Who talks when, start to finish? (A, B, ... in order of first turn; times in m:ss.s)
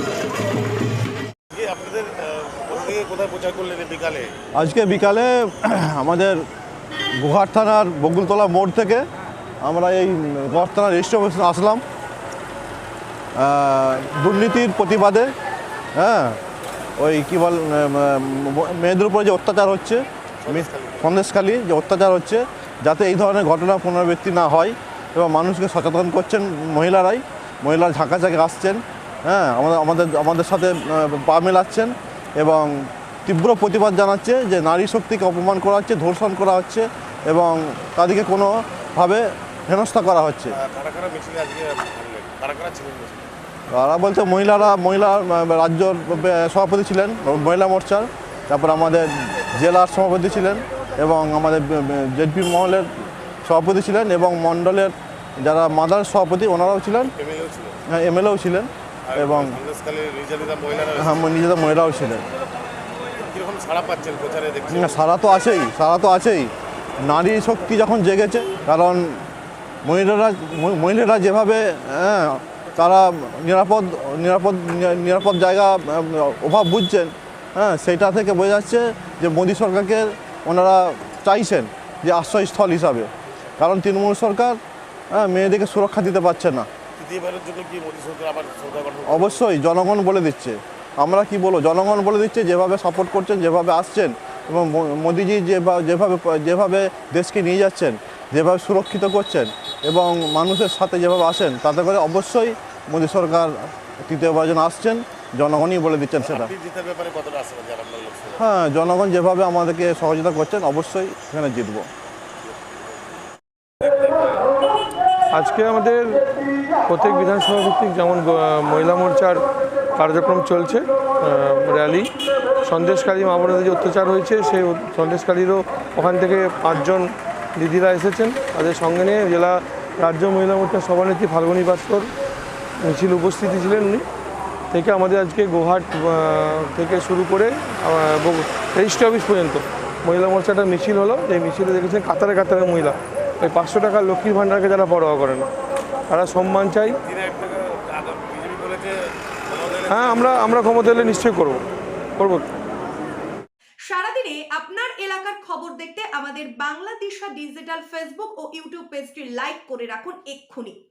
0:01.5-0:04.3 A
0:04.5-0:06.4 B
0:07.2-0:09.0 B
0:09.6-0:11.8 B
0:13.4-0:15.3 B
0:16.0-0:16.4 B
0:17.0-0:40.6 B
0:20.4-0:21.2 A
0:40.5-0:43.3 A
0:43.7-0:52.9 B
0:53.4-0:57.1 B
0:57.1-0:57.8 A
0:57.9-0:59.6 B
0:59.1-1:01.2 A
1:01.0-1:02.2 B
1:03.3-1:05.0 A
1:04.7-1:06.5 B
1:07.0-1:09.2 B
1:09.8-1:24.6 B
1:25.1-1:26.7 B
1:27.0-1:29.4 A
1:29.1-1:46.5 B
1:46.2-1:48.4 A
1:48.4-1:51.9 B
1:55.3-1:56.2 C
1:56.9-1:59.4 C
2:00.0-2:02.1 C
2:02.6-2:12.1 C
2:12.8-2:14.0 C
2:14.7-2:25.5 C
2:26.1-2:27.0 C
2:27.0-2:29.0 A
2:29.5-2:30.6 A
2:29.9-2:31.6 C
2:32.2-2:32.4 C
2:33.9-2:40.8 D